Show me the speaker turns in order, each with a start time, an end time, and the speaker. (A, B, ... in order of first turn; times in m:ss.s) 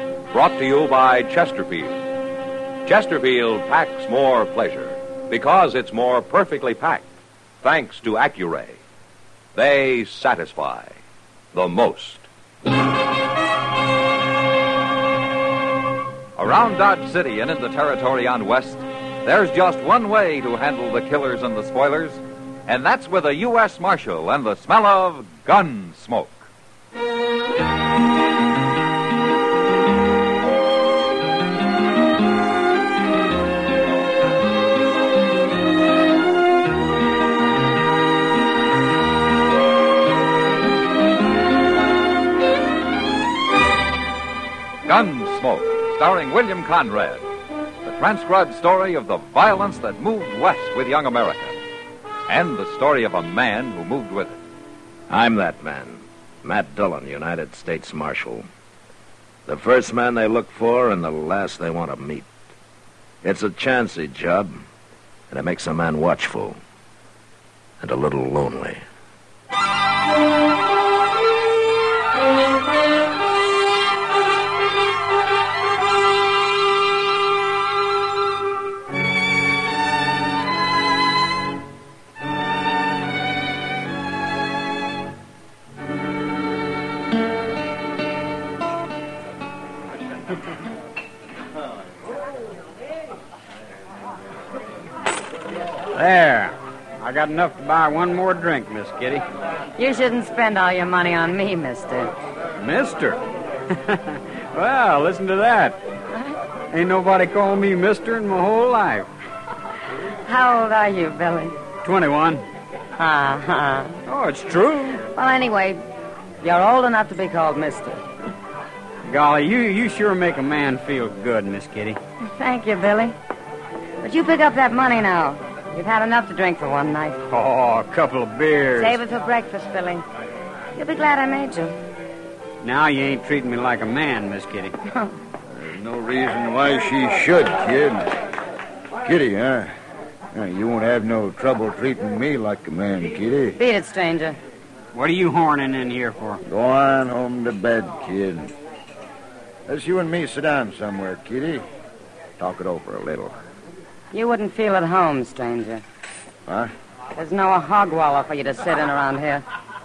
0:00.3-0:02.0 A
0:02.8-0:07.0 A
0:07.6-0:08.8 A
0:09.5-0:11.0 A
0:11.5-0:12.2 A
0:16.4-0:26.4 B
0:44.9-0:47.2 B
0:47.8-0:51.6 B
0:52.3-0:54.4 B
0:55.1-0:58.4 C
0:59.4-1:02.3 C
1:03.2-1:04.6 C
1:05.3-1:06.6 C
1:07.8-1:08.8 C
1:35.9-1:39.2 D
1:39.8-1:42.1 E
1:42.6-1:45.8 D
1:46.7-1:49.1 D
1:50.2-1:51.6 E
1:51.8-1:52.4 D
1:53.0-1:54.0 E
1:54.1-1:55.0 D
1:55.1-1:55.8 E
1:56.4-1:58.0 E
1:59.0-2:02.0 D
2:02.3-2:03.2 E
2:04.0-2:07.2 E
2:07.3-2:09.0 D
2:08.7-2:10.0 E
2:10.8-2:11.8 E
2:12.6-2:14.7 D
2:15.5-2:18.2 F
2:19.0-2:19.7 F
2:20.3-2:23.6 F
2:23.6-2:24.4 E
2:24.9-2:26.4 D
2:26.4-2:28.5 F
2:29.7-2:31.7 F
2:32.4-2:33.4 F
2:34.1-2:35.8 E
2:36.5-2:36.7 F
2:37.1-2:39.4 E